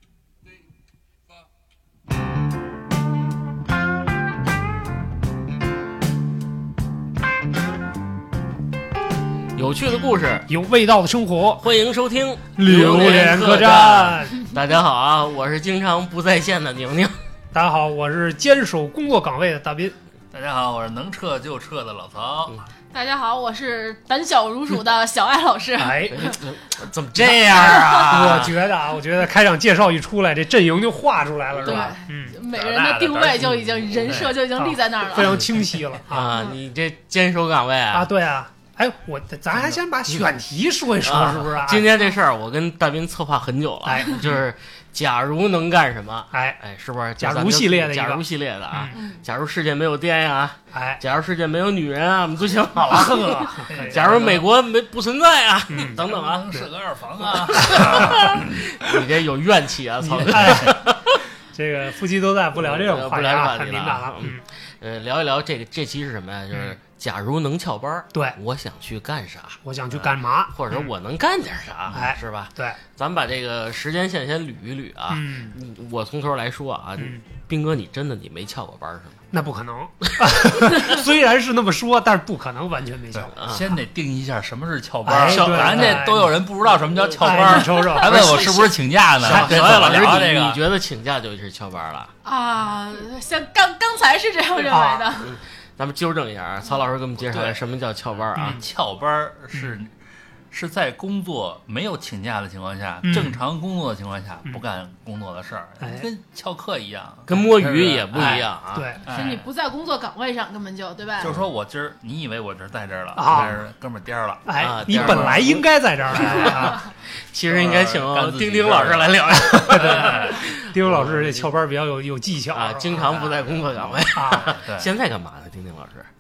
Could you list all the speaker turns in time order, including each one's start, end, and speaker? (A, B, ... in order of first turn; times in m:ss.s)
0:09.5-0:10.5 A
0:10.5-0:11.7 B
0:11.6-0:17.2 A
0:12.5-0:14.4 B
0:17.5-0:20.0 B
0:20.3-0:22.6 C
0:22.9-0:26.5 D
0:25.8-0:26.3 B
0:26.1-0:28.6 A
0:27.2-0:33.3 B
0:27.5-0:28.3 D
0:31.6-0:31.9 A
0:31.6-0:35.6 D
0:34.1-0:36.4 B
0:36.1-0:38.1 A
0:37.9-0:41.9 B
0:41.0-0:56.5 A
0:43.8-0:44.4 B
0:46.3-0:46.6 B
0:47.2-0:49.0 B
0:48.9-0:49.2 D
0:50.7-0:51.0 B
0:52.9-0:54.3 B
0:53.7-0:54.4 C
0:55.7-0:56.7 B
0:55.9-0:58.7 C
0:57.3-1:01.2 A
0:57.6-0:58.1 B
1:00.0-1:00.8 B
1:01.5-1:04.4 B
1:02.6-1:19.2 A
1:09.6-1:10.9 B
1:11.9-1:12.8 B
1:15.1-1:15.6 B
1:17.0-1:17.2 B
1:19.3-1:23.3 B
1:20.2-1:20.9 A
1:23.1-1:30.6 C
1:23.4-1:23.8 A
1:25.0-1:26.4 B
1:25.2-1:26.1 A
1:26.8-1:32.1 A
1:27.2-1:28.4 B
1:29.2-1:30.2 B
1:32.2-1:35.4 D
1:34.7-1:35.1 B
1:35.2-1:38.6 A
1:37.2-1:37.7 C
1:38.3-1:39.9 C
1:38.4-1:38.6 B
1:40.5-1:49.5 C
1:43.0-1:43.4 B
1:45.8-1:46.1 B
1:47.3-1:48.9 A
1:48.7-1:49.0 B
1:49.0-1:51.4 D
1:51.2-1:55.6 C
1:53.1-1:53.6 B
1:54.4-1:56.9 B
1:54.6-2:01.5 A
1:56.2-1:56.5 C
1:57.5-2:00.4 C
1:59.3-2:03.3 B
2:02.5-2:06.1 A
2:03.1-2:04.9 C
2:04.1-2:04.6 B